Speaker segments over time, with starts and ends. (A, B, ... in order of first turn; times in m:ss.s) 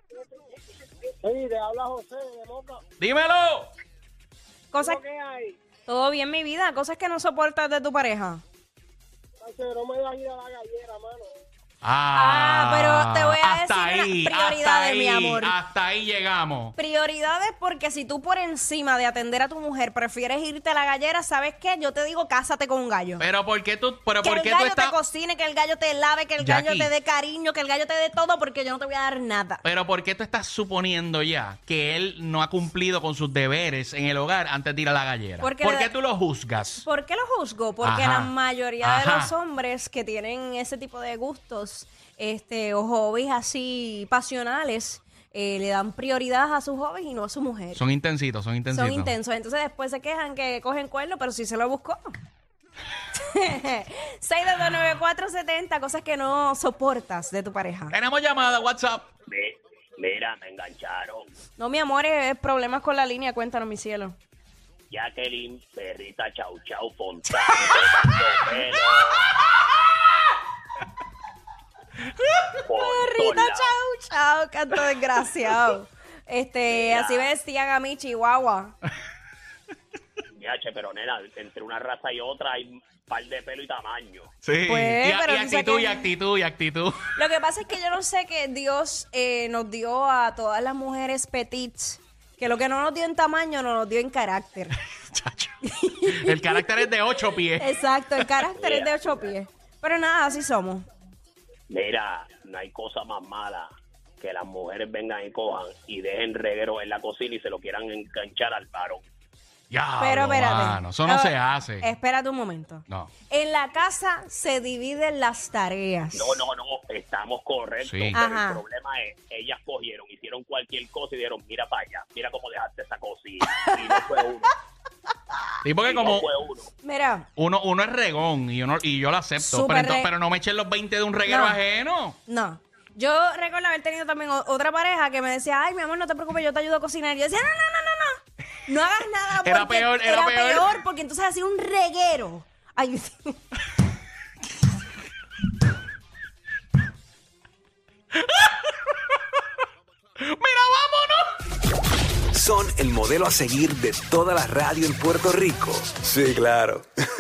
0:01.2-0:02.8 A
0:03.0-0:03.7 B
0:04.7-0:05.0 C
0:04.9-0:05.6 A
0:05.8-0:08.4 C
0:09.4-0:11.3 A
0:11.8-0:16.7 B
0:12.1-0:15.5 C
0:16.8-0:23.2 C
0:23.2-0:25.0 B
0:24.2-0:29.6 C
0:26.4-0:26.9 B
0:29.6-0:36.8 B
0:35.4-0:35.9 C
0:36.8-0:47.8 C
0:37.8-0:39.3 B
0:47.7-0:49.1 B
0:48.7-0:52.1 C
0:53.2-0:57.9 C
0:57.9-0:59.0 B
0:59.3-1:01.3 D
1:01.6-1:04.2 C
1:04.9-1:09.2 D
1:12.6-1:13.7 D
1:12.8-1:18.7 C
1:16.7-1:17.3 D
1:20.4-1:24.3 D
1:24.4-1:27.1 B
1:24.6-1:26.1 C
1:27.1-1:34.8 C
1:35.1-1:35.5 B
1:35.6-1:36.9 C
1:36.1-1:38.3 B
1:37.6-1:40.8 C
1:38.6-1:39.3 D
1:41.7-1:49.0 D
1:49.7-1:51.9 B
1:50.0-1:56.4 C
1:56.1-2:04.6 D
1:57.8-1:58.2 B
1:58.1-1:58.6 C
2:05.6-2:06.3 B
2:05.8-2:06.7 D
2:06.8-2:07.3 C
2:07.4-2:12.2 B
2:09.4-2:10.1 C
2:11.2-2:11.6 C
2:12.2-2:23.4 C
2:19.4-2:20.7 B
2:28.2-2:29.2 B
2:30.2-2:31.3 B
2:32.3-2:36.9 E